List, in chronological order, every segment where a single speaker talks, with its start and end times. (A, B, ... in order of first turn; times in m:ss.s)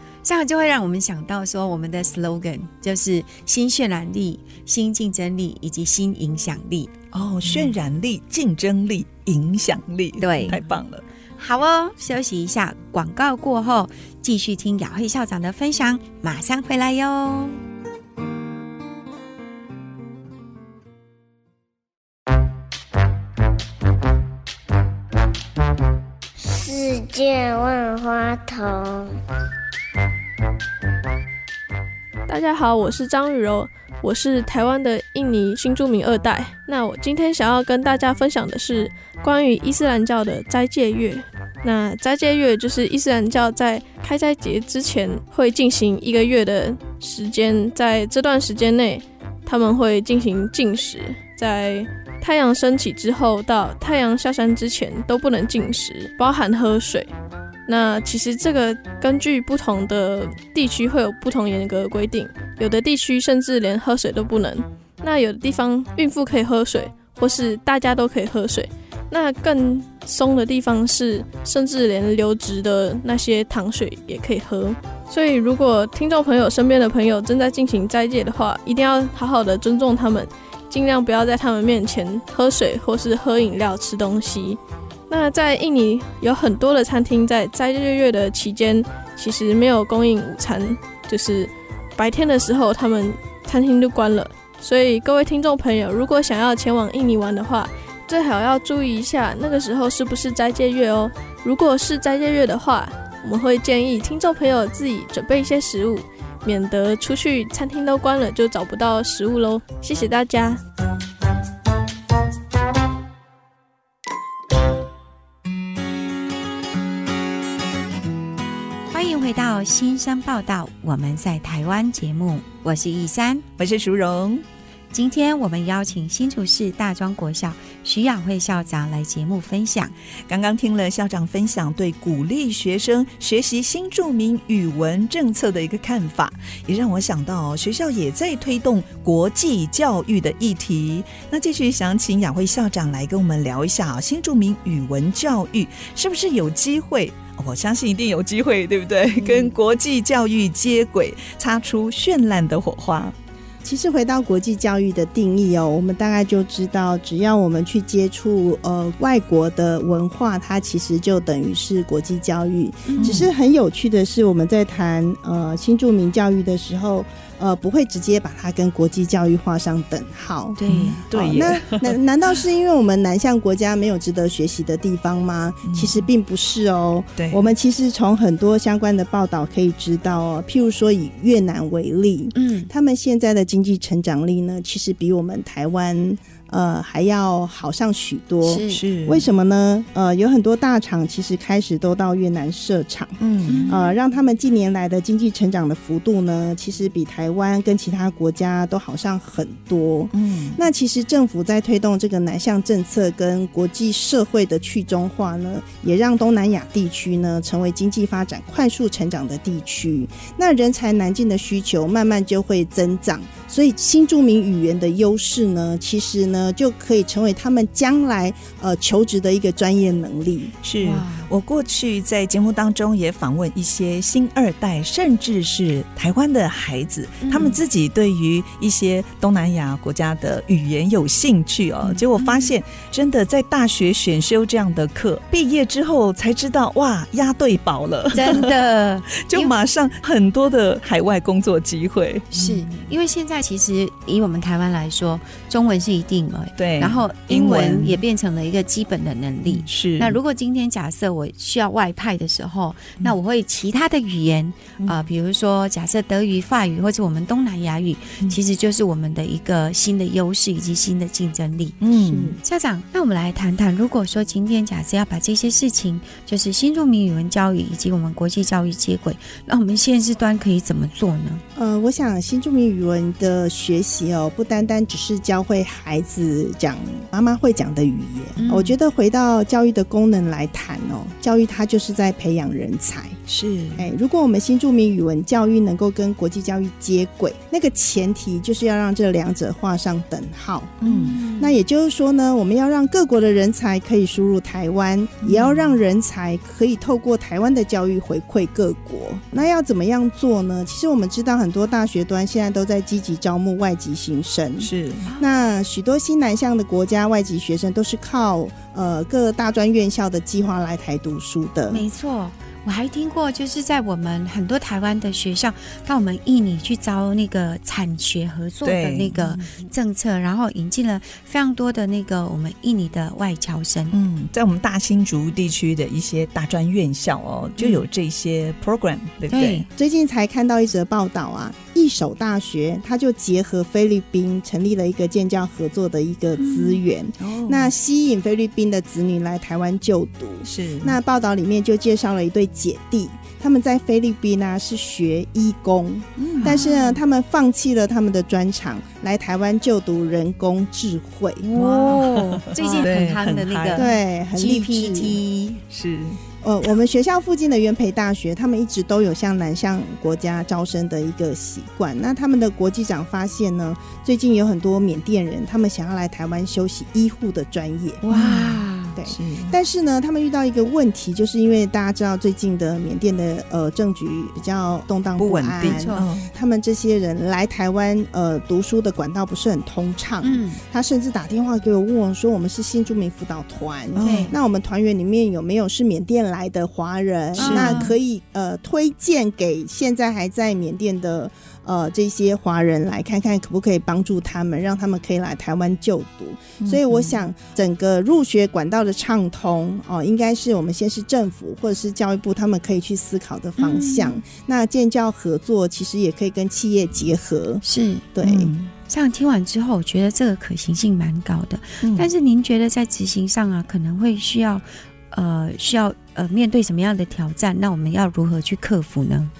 0:00.2-0:06.9 A
0:07.1-0:11.0 B
0:10.2-0:10.6 A
0:11.4-0:17.6 A
0:26.4-0:29.2 C
0:32.3-0:57.1 D
0:57.7-1:50.6 D
1:58.9-2:03.4 A
2:03.6-2:04.4 B
2:04.9-2:09.9 A
2:10.3-2:33.1 B
2:33.6-3:13.2 E
2:42.9-2:43.3 A
2:43.0-2:43.3 B
2:50.6-2:51.0 A
2:50.7-2:52.0 B
2:55.6-2:56.1 B
2:57.2-2:57.4 B
3:02.4-3:02.7 A
3:08.4-3:08.8 A
3:08.7-3:09.3 B
3:13.2-3:13.8 B
3:13.5-3:13.9 A
3:13.7-3:40.6 E
3:20.1-3:20.6 B
3:40.6-3:58.5 B
3:40.8-3:41.3 A
3:47.2-3:47.6 A
3:52.2-3:52.5 A
3:58.1-3:59.5 A
3:59.2-4:02.6 B
4:02.3-4:21.8 A
4:06.6-4:08.0 B
4:09.5-4:10.2 B
4:21.8-4:22.4 B
4:22.0-4:22.4 E
4:22.4-4:31.4 A
4:31.6-4:43.2 E
4:38.4-4:38.7 A
4:43.3-4:43.9 B
4:43.8-4:50.8 E
4:50.8-4:51.2 B
4:50.8-4:51.5 A
4:51.4-5:11.8 E
4:55.2-4:55.7 B
5:04.6-5:05.1 B
5:11.7-5:23.9 A
5:18.6-5:19.4 B
5:23.9-5:29.7 B
5:29.3-5:29.7 A
5:29.7-5:51.4 E
5:36.4-5:36.8 A
5:37.2-5:37.7 B
5:40.4-5:41.0 B
5:46.2-5:46.6 B
5:46.4-5:47.0 A
5:51.4-5:55.6 A
5:51.6-5:53.9 B
5:53.7-5:55.2 E
5:55.7-5:56.2 B
5:56.4-6:08.0 E
6:08.0-6:09.0 A
6:08.1-6:09.5 B
6:09.0-6:47.6 E
6:15.2-6:16.3 B
6:15.6-6:16.0 A
6:20.2-6:20.6 A
6:24.0-6:24.4 B
6:24.0-6:24.4 A
6:27.4-6:28.0 A
6:27.4-6:27.9 B
6:36.6-6:37.2 B
6:43.6-6:44.2 A
6:47.6-6:48.1 A
6:48.2-6:48.5 E
6:48.2-6:48.7 B
6:48.9-6:59.3 A
6:51.8-6:52.1 B